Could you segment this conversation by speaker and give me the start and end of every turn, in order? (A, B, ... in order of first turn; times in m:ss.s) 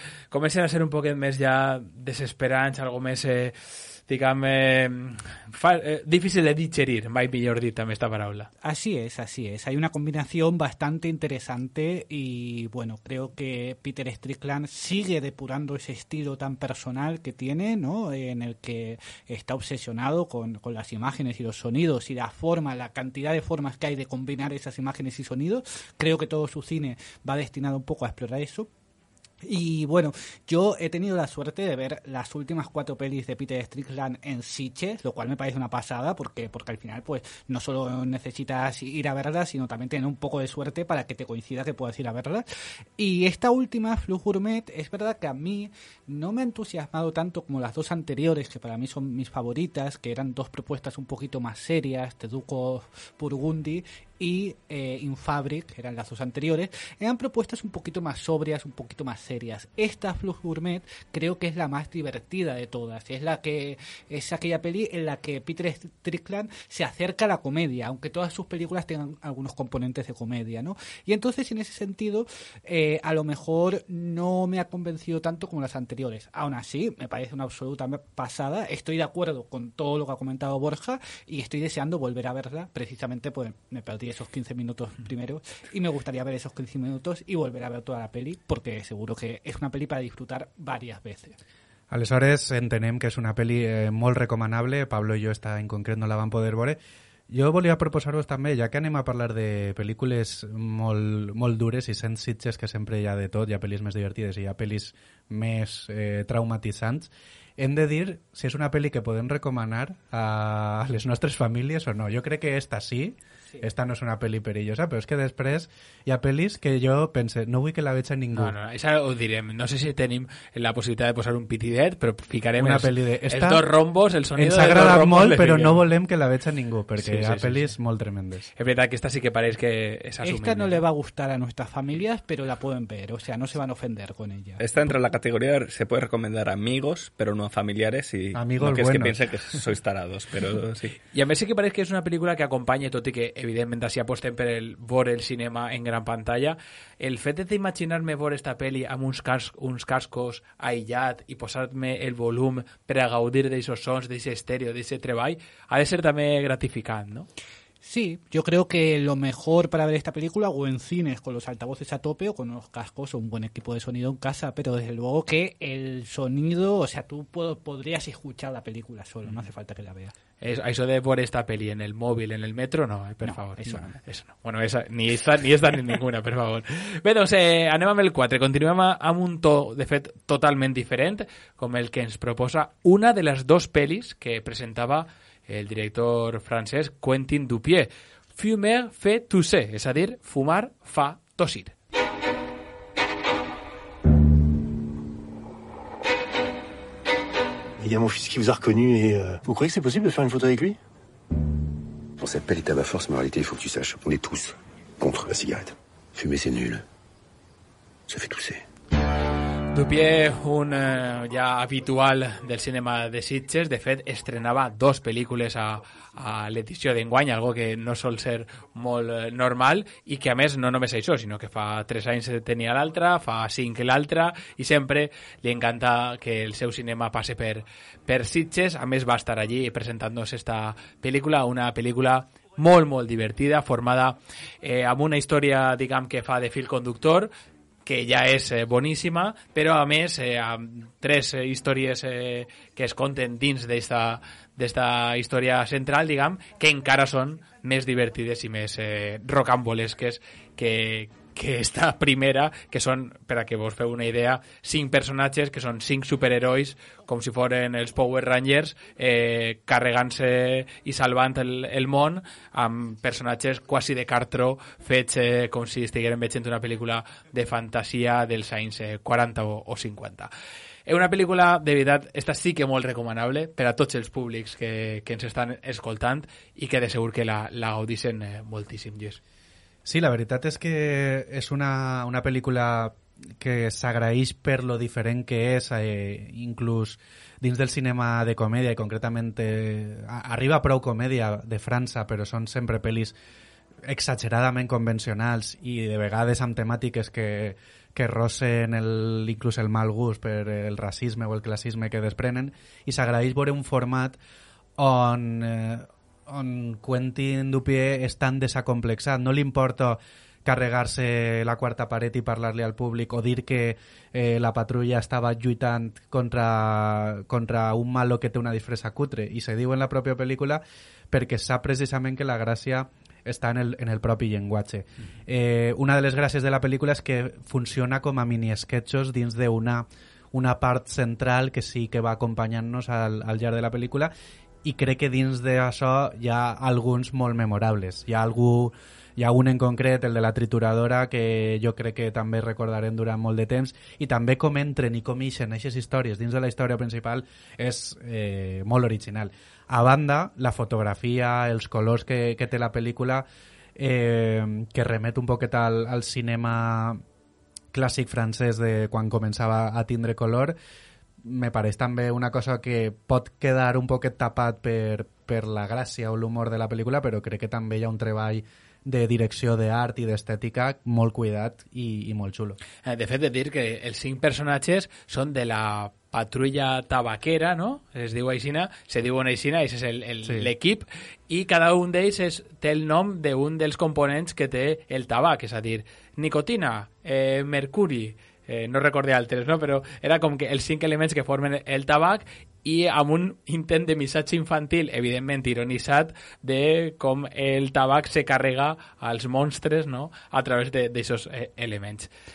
0:00.3-0:08.5 A
0:08.6-0:28.7 B
0:29.4-0:42.4 B
0:43.0-1:31.4 B
1:31.9-1:58.5 C
1:58.3-2:05.8 A
2:02.6-2:03.6 C
2:04.4-2:08.5 C
2:07.0-2:07.7 A
2:08.6-2:10.8 A
2:10.2-2:14.6 B
2:14.6-2:21.0 D
2:18.3-2:19.2 C
2:21.1-2:37.3 A
2:37.8-2:50.1 B
2:50.4-3:11.7 A
2:53.2-2:54.0 B
3:17.8-3:20.8 E
3:22.2-3:26.8 F
3:28.1-3:28.6 F
3:29.7-3:57.3 A
3:57.8-4:30.3 A
4:30.8-4:39.2 A
4:39.8-4:53.1 C
4:53.8-5:04.2 C
5:04.8-5:34.1 C
5:34.6-5:57.0 C
5:57.7-6:00.6 C
6:01.2-6:12.6 C
6:12.8-6:42.1 A
6:20.2-6:20.5 C